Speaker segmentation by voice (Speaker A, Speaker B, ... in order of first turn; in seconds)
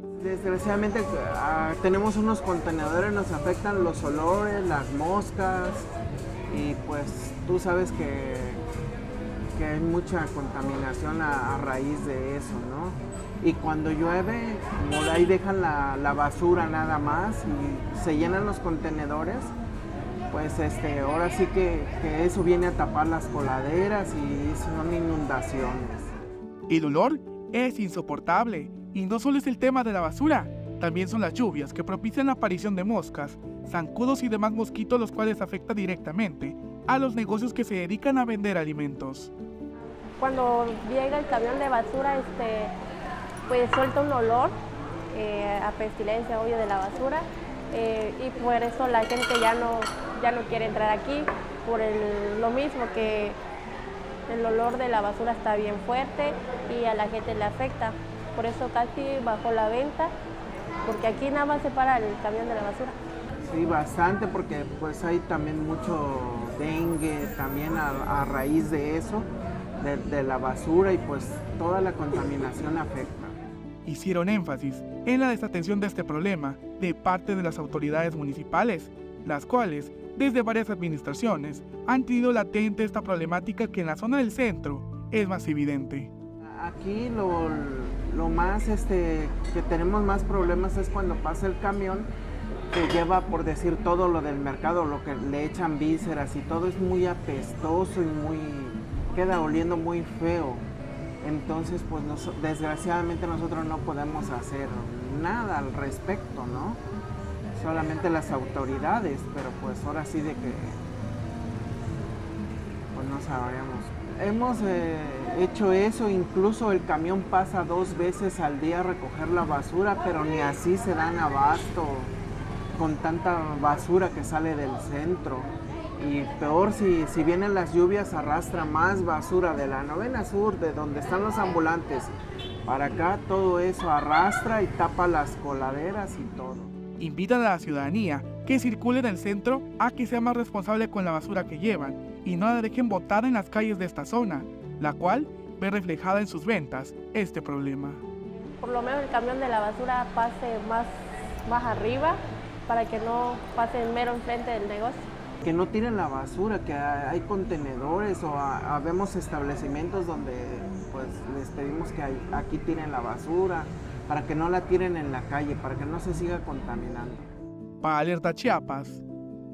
Speaker A: 0.2-5.9, 6.5-8.6, 9.6-19.5, 20.3-26.1, 63.4-69.3, 69.8-73.4, 86.5-92.1, 92.7-100.7, 101.2-106.8, 107.5-110.8, 112.9-122.1, 122.8-132.1, 132.7-136.7, 155.4-167.3
Speaker B: 26.7-39.3, 73.8-86.1, 137.0-148.0, 167.8-169.0
Speaker C: 40.2-42.7, 43.5-44.5, 45.1-53.4, 54.3-60.1, 60.9-63.0, 148.6-155.0